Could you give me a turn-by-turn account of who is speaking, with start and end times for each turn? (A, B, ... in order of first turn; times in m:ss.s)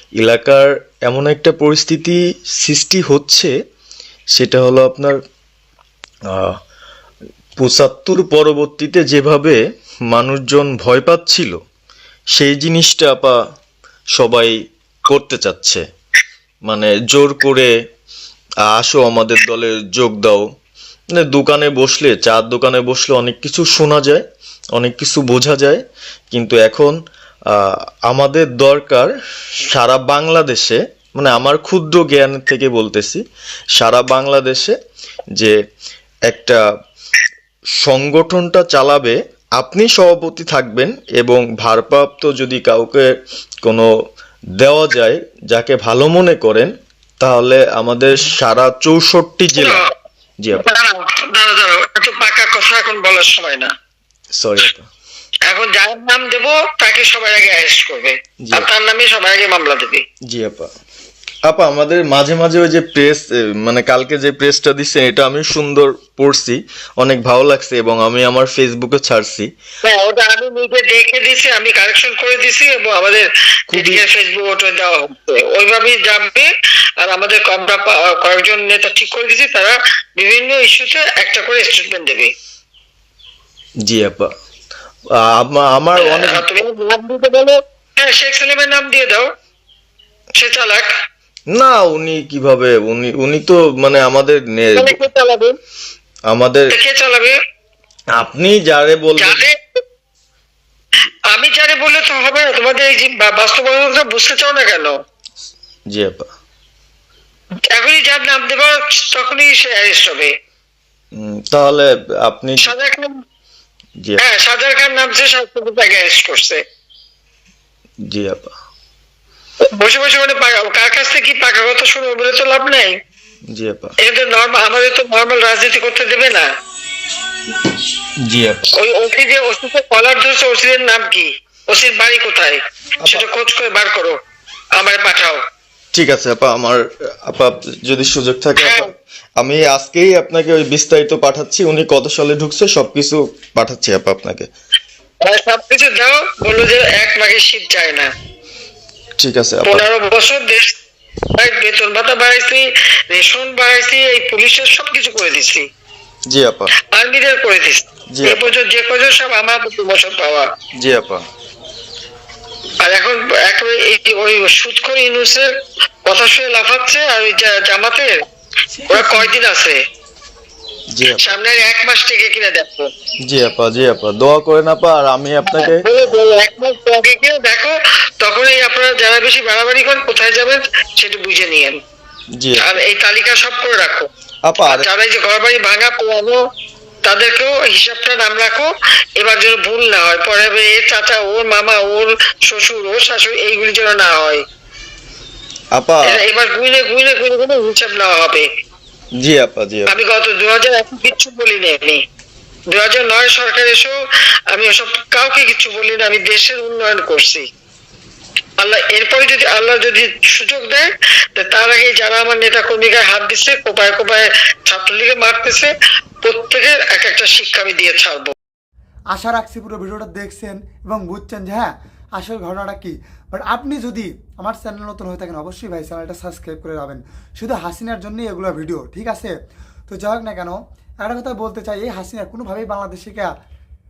0:00.2-0:03.5 A
0:04.4-0:05.2 A
0:06.3-0:06.6 A
0:07.6-0:11.6 A
0:12.3-0:13.4 A
0:14.2-0:14.5 A
0:15.1-0:15.8 A
0:16.7-0:17.7 A
0:18.7-0:20.4 A
0:21.1-0:24.2 A
0:24.8-0:27.0 A
0:27.5-0:33.2 A
0:33.8-0:34.8 A
0:36.3-0:36.6 A
0:37.8-0:43.1 A
0:44.6-0:49.8 A
0:49.6-0:49.9 B
0:50.4-0:50.6 A
0:50.5-0:53.7 B
0:54.3-0:54.9 A
0:55.5-1:00.0 B
0:58.4-0:58.7 A
1:00.3-1:00.7 A
1:01.5-1:09.5 A
1:09.8-1:16.5 B
1:13.7-1:14.0 A
1:17.0-1:22.3 B
1:23.8-1:24.3 A
1:25.2-1:26.5 A
1:26.0-1:29.3 B
1:30.4-1:30.9 B
1:31.5-1:35.0 A
1:34.8-1:35.6 B
1:36.3-1:36.8 A
1:36.7-1:37.4 B
1:38.1-1:39.4 A
1:39.2-1:39.8 B
1:41.3-1:44.9 B
1:45.9-1:46.3 A
1:47.7-1:50.3 B
1:51.1-1:52.7 A
1:52.6-1:53.2 B
1:54.2-1:56.6 B
1:58.1-1:58.5 A
1:59.7-2:03.0 B
2:03.5-2:04.0 A
2:04.0-2:06.5 B
2:08.2-2:08.7 A
2:08.8-2:14.2 B
2:13.0-2:13.3 A
2:14.8-2:15.4 B
2:15.9-2:24.5 A
2:18.6-2:18.9 B
2:25.3-2:28.1 B
2:29.2-2:29.9 A
2:29.7-2:30.7 B
2:31.4-2:35.7 B
2:36.3-2:36.7 A
2:36.9-2:40.5 B
2:38.1-2:38.4 A
2:40.8-2:41.2 A
2:42.8-2:48.2 B
2:48.9-2:49.8 B
2:50.9-2:51.4 A
2:51.2-2:52.9 B
2:53.2-2:55.8 A
2:55.5-3:01.8 B
3:02.4-3:02.7 A
3:02.6-3:04.1 B
3:04.4-3:04.9 A
3:04.6-3:06.4 B
3:07.0-3:14.4 B
3:15.7-3:16.2 A
3:16.1-3:18.5 B
3:19.2-3:20.0 A
3:19.9-3:22.0 B
3:22.7-3:24.0 B
3:24.5-3:27.5 B
3:28.6-3:35.7 B
3:36.2-3:38.3 B
3:39.1-3:49.3 C
3:49.9-3:53.3 C